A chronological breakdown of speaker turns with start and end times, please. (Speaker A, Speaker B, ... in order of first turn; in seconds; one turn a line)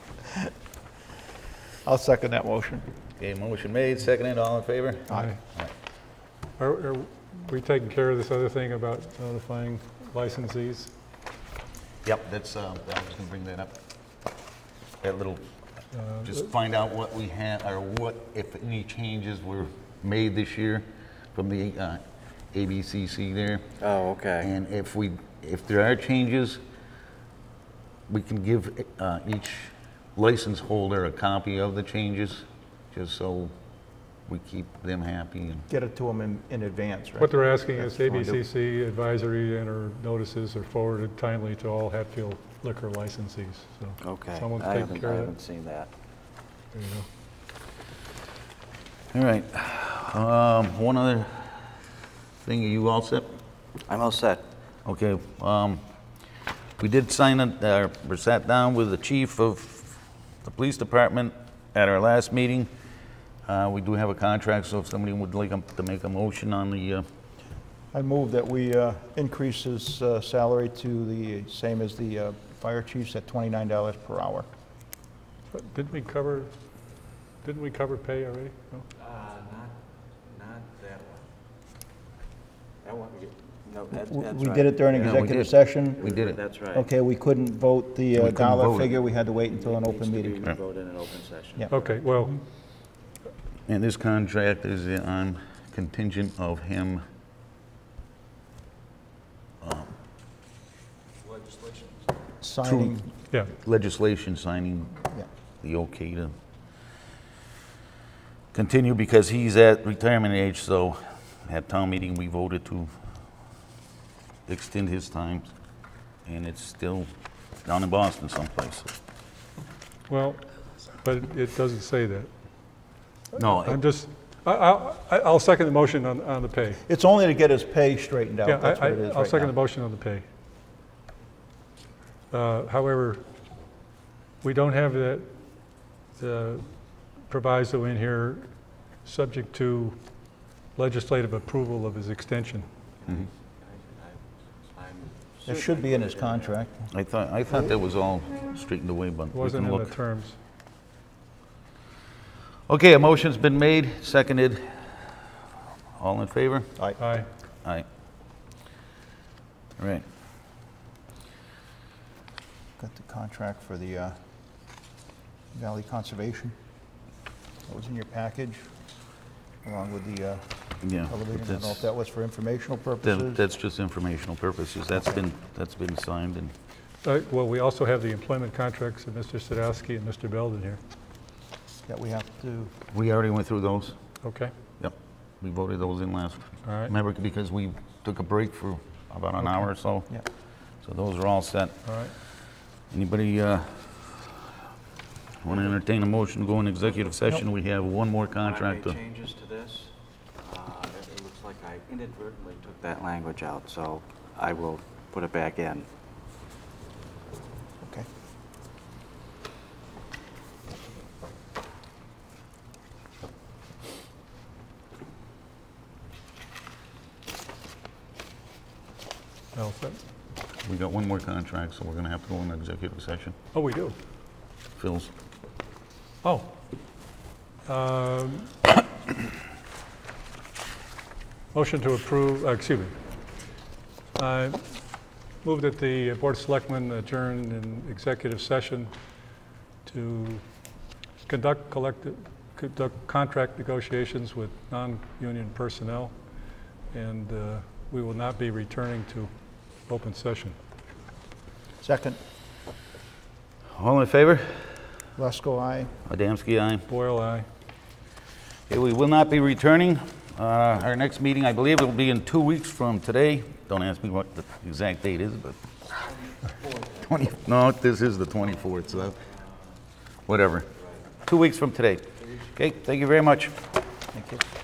Speaker A: 1.9-2.8
Speaker B: 3.2-5.7
Speaker C: 5.1-5.4
Speaker C: 6.6-10.9
Speaker B: 12.0-13.7
Speaker B: 15.0-15.4
Speaker C: 15.9-16.4
Speaker B: 16.2-23.6
Speaker D: 23.8-24.5
Speaker B: 24.4-26.6
Speaker B: 28.1-33.5
Speaker B: 34.3-35.6
Speaker A: 35.7-38.4
Speaker C: 37.2-45.3
Speaker D: 44.0-45.9
Speaker C: 46.7-47.0
Speaker B: 49.1-51.7
Speaker B: 52.4-53.3
Speaker D: 53.9-54.4
Speaker B: 54.8-55.8
Speaker B: 56.8-62.7
Speaker B: 63.5-67.0
Speaker A: 67.9-74.5
Speaker C: 75.5-76.5
Speaker C: 77.4-78.8
Speaker D: 79.0-81.2
Speaker D: 82.8-85.4
Speaker A: 84.1-86.2
Speaker B: 85.0-86.4
Speaker D: 86.0-86.9
Speaker A: 86.7-90.4
Speaker B: 88.1-88.9
Speaker D: 89.5-91.9
Speaker C: 91.7-92.4
Speaker B: 93.7-97.0
Speaker B: 99.6-99.9
Speaker D: 101.4-101.9
Speaker A: 102.4-103.1
Speaker B: 102.6-102.9
Speaker B: 103.5-105.0
Speaker B: 105.6-106.3
Speaker B: 108.5-112.9
Speaker B: 114.5-115.5
Speaker B: 116.2-117.1
Speaker B: 117.6-118.9
Speaker C: 120.1-120.4
Speaker C: 121.0-122.3
Speaker C: 123.3-126.8
Speaker B: 123.3-123.8
Speaker A: 126.8-129.5
Speaker C: 128.4-130.2
Speaker C: 132.3-133.2
Speaker C: 134.4-135.3
Speaker C: 136.2-136.7
Speaker C: 137.3-138.5
Speaker C: 139.0-140.0
Speaker C: 140.8-142.7
Speaker D: 143.0-146.6
Speaker A: 145.4-146.9
Speaker B: 146.9-149.9
Speaker C: 149.3-150.3
Speaker B: 152.7-155.1
Speaker B: 156.0-156.7
Speaker C: 157.0-157.3
Speaker B: 159.8-160.0
Speaker A: 162.8-164.2
Speaker A: 165.5-166.5
Speaker A: 167.7-168.6
Speaker A: 169.6-173.4
Speaker B: 170.8-171.9
Speaker B: 173.0-176.5
Speaker C: 177.0-180.8
Speaker A: 181.8-182.7
Speaker B: 182.9-183.9
Speaker C: 184.2-184.5
Speaker B: 184.8-190.1
Speaker C: 186.6-186.9
Speaker B: 190.8-191.8
Speaker C: 191.8-192.1
Speaker B: 192.9-194.5
Speaker B: 195.4-199.0
Speaker D: 198.4-205.9
Speaker C: 219.5-220.0
Speaker B: 220.6-223.3
Speaker C: 223.5-223.9
Speaker B: 224.8-225.1
Speaker C: 226.2-226.5
Speaker C: 227.7-228.5
Speaker C: 231.5-232.9
Speaker C: 234.2-234.6
Speaker C: 235.4-238.9
Speaker C: 239.8-240.4
Speaker C: 241.2-246.1
Speaker C: 246.9-249.3
Speaker C: 249.8-250.6
Speaker A: 251.8-252.2
Speaker B: 253.7-254.9
Speaker A: 255.2-255.9
Speaker B: 256.1-256.8
Speaker C: 256.9-257.4
Speaker B: 258.7-265.6
Speaker D: 266.2-267.3
Speaker B: 267.0-269.2
Speaker B: 270.3-270.7
Speaker B: 271.2-273.5
Speaker A: 274.1-274.4